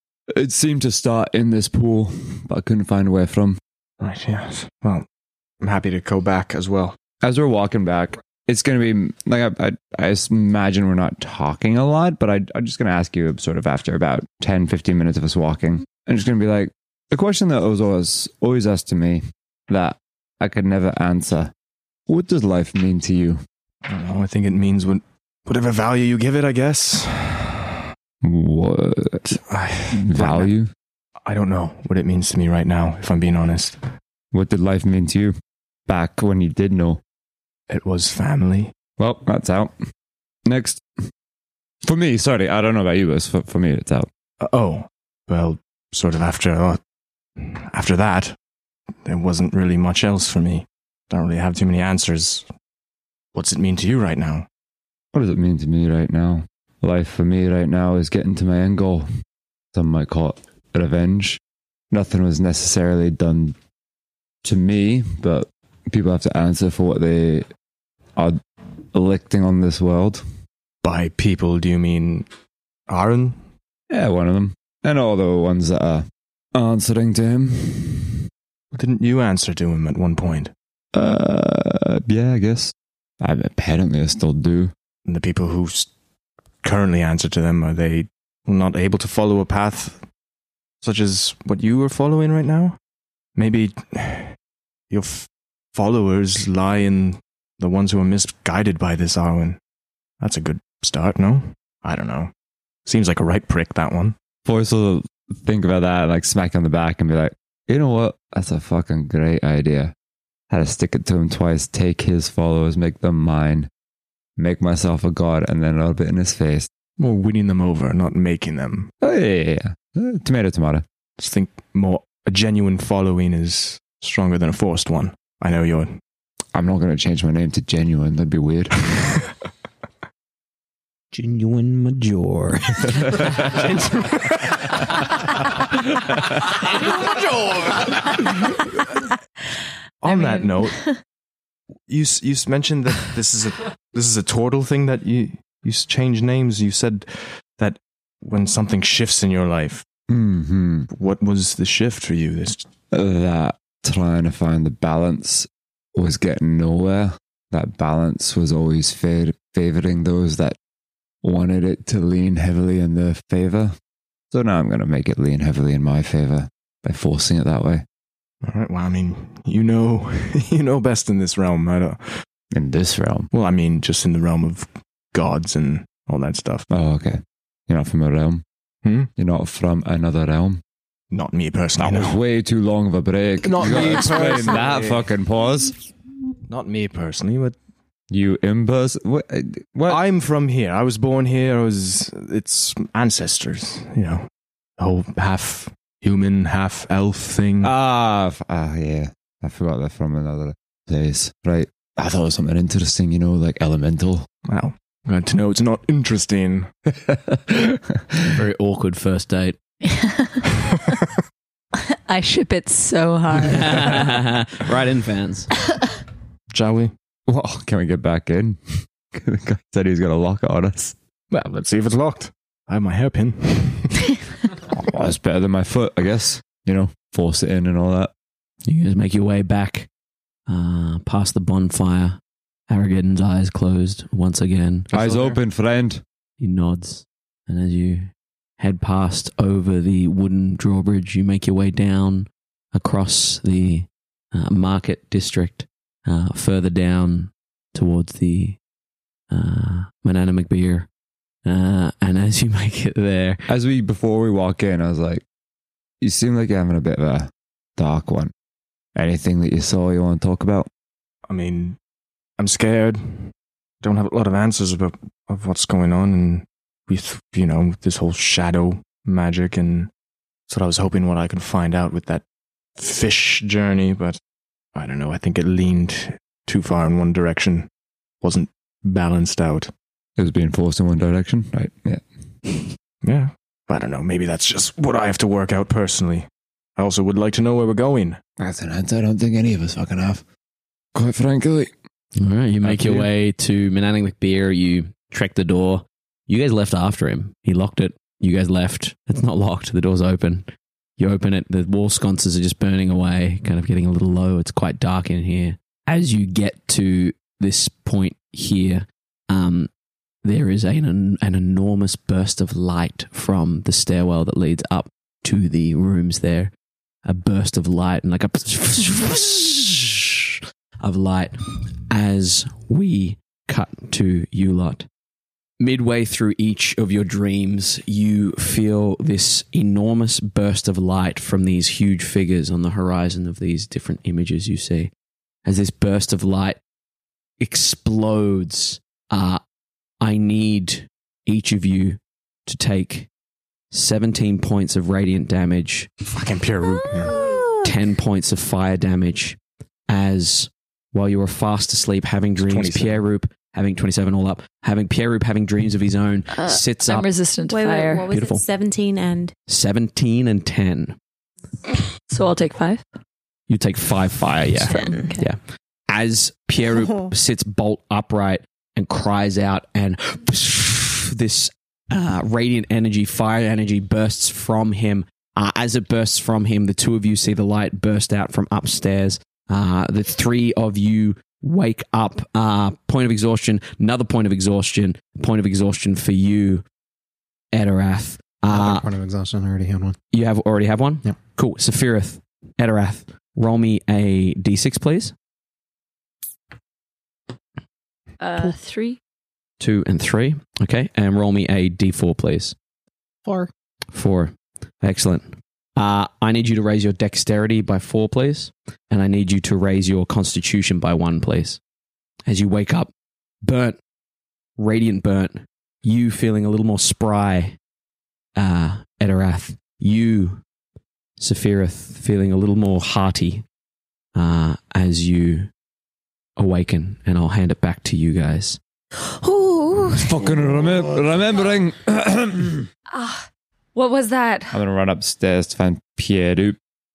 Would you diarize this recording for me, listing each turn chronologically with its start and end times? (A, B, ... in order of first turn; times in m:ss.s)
0:00.3-0:03.6 A
0:04.0-0:05.1 B
0:05.6-0:07.0 B
0:07.2-0:21.5 A
0:22.1-0:23.4 A
0:23.9-0:27.8 B
0:28.2-0:29.4 A
0:29.3-0:30.5 B
0:29.9-0:30.7 A
0:31.2-0:33.8 B
0:34.3-0:35.4 A
0:35.9-0:37.0 A
0:37.7-0:38.8 B
0:39.0-0:39.7 A
0:40.5-0:40.8 A
0:41.8-0:44.1 A
0:44.4-0:46.8 B
0:47.4-0:48.4 B
0:49.1-0:52.5 B
0:53.3-0:54.5 B
0:55.1-0:59.1 A
0:59.7-1:01.4 A
1:01.9-1:03.6 A
1:04.4-1:07.5 A
1:08.9-1:10.2 A
1:10.8-1:12.3 B
1:12.9-1:13.4 B
1:13.9-1:18.3 A
1:18.7-1:20.5 B
1:20.9-1:24.7 A
1:25.1-1:25.9 B
1:26.6-1:30.0 B
1:30.8-1:32.8 B
1:33.4-1:34.4 B
1:34.9-1:39.6 B
1:40.2-1:42.3 B
1:42.9-1:44.2 B
1:44.4-1:49.9 A
1:50.5-1:53.7 A
1:54.4-1:56.7 A
1:57.0-1:58.9 B
1:59.0-2:00.8 A
2:01.2-2:06.0 B
2:06.5-2:08.9 A
2:11.1-2:13.4 C
2:13.5-2:14.6 B
2:20.0-2:20.8 B
2:20.1-2:21.0 D
2:21.9-2:29.9 B
2:30.1-2:30.9 A
2:30.9-2:32.7 B
2:32.9-2:40.6 A
2:41.2-2:43.7 A
2:44.3-2:47.8 A
2:48.4-2:52.2 B
2:52.5-2:53.3 A
2:53.3-2:56.7 B
2:56.7-2:58.4 A
2:58.8-2:59.1 B
2:59.2-3:00.6 A
3:01.1-3:02.2 B
3:01.8-3:05.8 A
3:03.4-3:05.0 B
3:06.5-3:07.6 B
3:08.1-3:10.0 A
3:09.9-3:17.7 B
3:17.6-3:24.3 A
3:24.5-3:26.7 B
3:27.1-3:28.2 A
3:28.3-3:29.6 E
3:29.8-3:30.5 D
3:32.1-3:34.2 D
3:33.4-3:35.5 E
3:36.5-3:36.9 B
3:37.3-3:41.0 A
3:41.3-3:43.9 B
3:44.7-3:48.1 A
3:48.6-3:49.9 E
3:50.5-3:52.2 E
3:52.7-3:54.9 E
3:54.9-3:55.4 B
3:54.9-3:56.0 A
3:56.4-4:08.6 E
4:09.3-4:10.9 E
4:11.5-4:13.4 E
4:13.5-4:15.2 A
4:16.0-4:18.3 A
4:19.0-4:20.7 A
4:21.3-4:21.8 B
4:22.4-4:29.9 B
4:30.5-4:32.2 B
4:32.8-4:34.2 B
4:34.8-4:37.7 B
4:38.2-4:39.7 B
4:40.2-4:42.0 A
4:43.0-4:48.2 B
4:48.4-4:50.2 A
4:50.9-4:51.7 A
4:52.2-5:09.7 E
4:52.6-4:53.1 A
5:10.2-5:16.5 E
5:17.0-5:20.0 E
5:20.8-5:24.9 E
5:25.6-5:34.9 E
5:35.4-5:36.6 E
5:37.4-5:39.4 E
5:40.0-5:43.1 E
5:43.7-5:45.9 E
5:46.1-5:47.3 B
5:46.8-5:47.7 F
5:47.6-5:49.4 E
5:49.9-5:57.1 E
5:52.4-5:53.0 B
5:56.3-5:58.1 D
5:57.5-5:59.3 F
5:58.1-5:58.4 E
5:59.5-6:01.0 E
6:02.1-6:02.8 D
6:03.5-6:05.4 E
6:04.7-6:05.2 D
6:05.9-6:26.6 E
6:27.5-6:28.9 E
6:28.5-6:30.0 C
6:30.1-6:35.1 E
6:38.2-6:39.0 D
6:39.6-6:42.6 E
6:43.2-6:43.5 C
6:43.9-6:51.6 E
6:52.3-6:52.9 E
6:53.4-6:53.8 E
6:54.6-6:57.6 E
6:58.4-7:00.4 E
7:01.2-7:03.4 E
7:04.2-7:05.5 E
7:06.4-7:08.6 E
7:09.0-7:10.3 F
7:10.0-7:12.7 A
7:12.9-7:14.6 D
7:14.5-7:16.6 A